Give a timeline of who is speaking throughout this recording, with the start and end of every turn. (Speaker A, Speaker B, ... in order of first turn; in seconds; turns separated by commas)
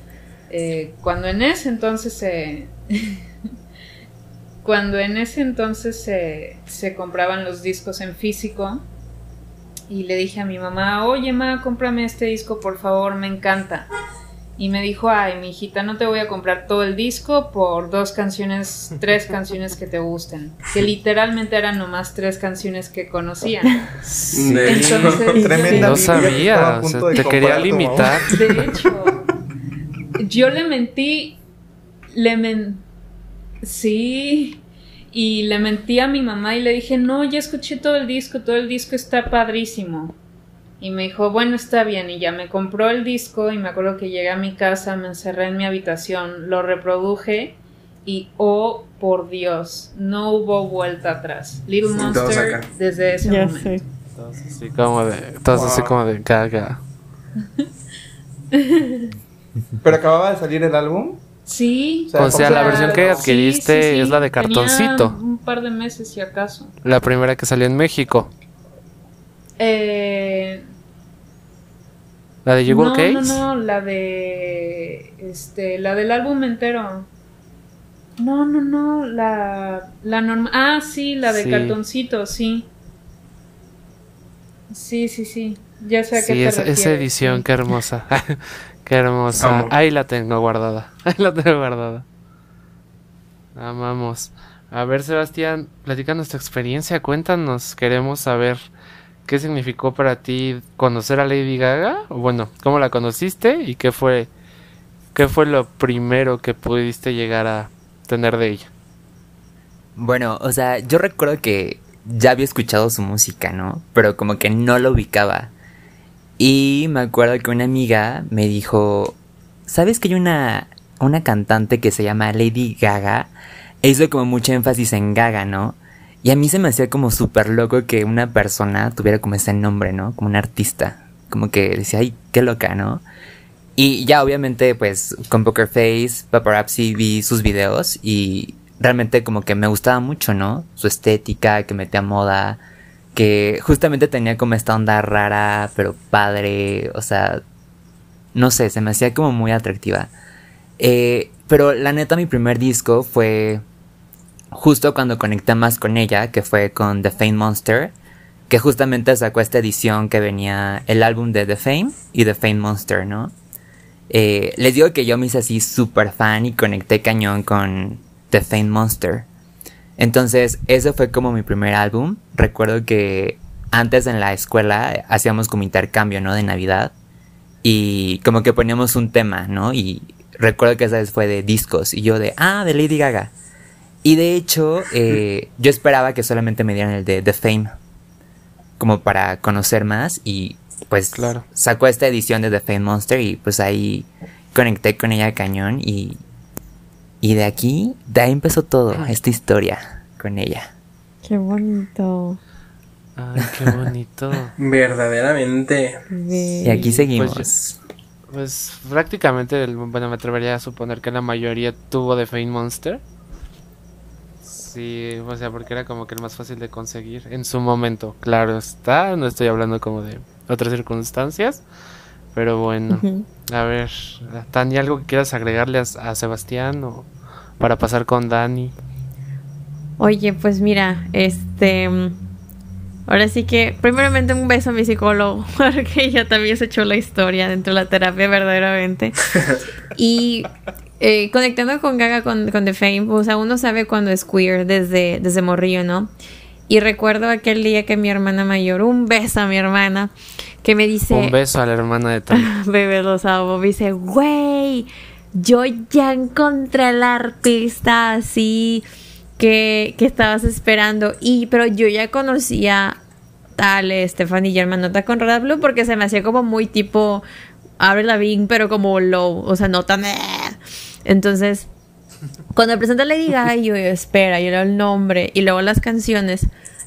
Speaker A: 0.5-3.2, Speaker A: 4.6-8.8, Speaker A: 9.9-13.9, Speaker A: 14.6-23.9, Speaker B: 24.1-25.1, Speaker C: 24.3-25.4, Speaker A: 24.6-26.4, Speaker D: 25.3-26.0, Speaker E: 25.3-28.8, Speaker B: 25.7-28.3, Speaker A: 28.2-29.3, Speaker A: 30.2-31.4, Speaker A: 32.1-32.8, Speaker A: 33.6-40.1, Speaker A: 40.8-53.8, Speaker C: 51.9-52.7, Speaker D: 53.2-53.8, Speaker B: 54.1-56.8, Speaker E: 55.5-56.0, Speaker A: 58.5-59.1, Speaker E: 59.8-61.2, Speaker A: 61.5-66.7, Speaker E: 62.1-63.3, Speaker B: 62.2-65.2, Speaker B: 66.8-68.3, Speaker A: 69.6-70.6, Speaker B: 72.4-73.4, Speaker A: 72.7-77.1, Speaker A: 78.2-82.7, Speaker B: 81.3-81.8, Speaker A: 84.7-87.5, Speaker B: 86.2-92.0, Speaker C: 89.4-89.7, Speaker B: 93.5-98.7, Speaker B: 99.2-104.3, Speaker B: 105.1-108.7, Speaker F: 110.0-115.5, Speaker F: 116.4-133.0, Speaker F: 133.8-142.6, Speaker F: 143.1-147.4, Speaker F: 148.3-150.1, Speaker F: 150.8-153.6, Speaker F: 154.5-157.9, Speaker F: 158.5-163.3, Speaker F: 164.1-169.3, Speaker F: 170.0-176.9, Speaker F: 177.6-183.3, Speaker F: 184.0-187.7, Speaker F: 188.8-196.2, Speaker B: 191.1-191.4, Speaker F: 197.2-200.7, Speaker D: 201.2-202.4, Speaker B: 203.2-204.5, Speaker C: 204.6-206.1, Speaker D: 206.1-207.0, Speaker F: 206.6-207.6, Speaker B: 206.7-207.7, Speaker B: 208.3-213.0, Speaker B: 214.4-221.6, Speaker B: 222.3-227.1, Speaker D: 222.9-223.2, Speaker B: 227.6-228.7, Speaker D: 230.0-232.2, Speaker D: 233.1-239.3, Speaker D: 239.9-246.1, Speaker D: 246.7-251.4, Speaker B: 251.1-252.5, Speaker D: 252.3-258.8, Speaker D: 259.4-263.0, Speaker D: 263.6-267.2, Speaker D: 267.8-271.7, Speaker D: 272.5-276.5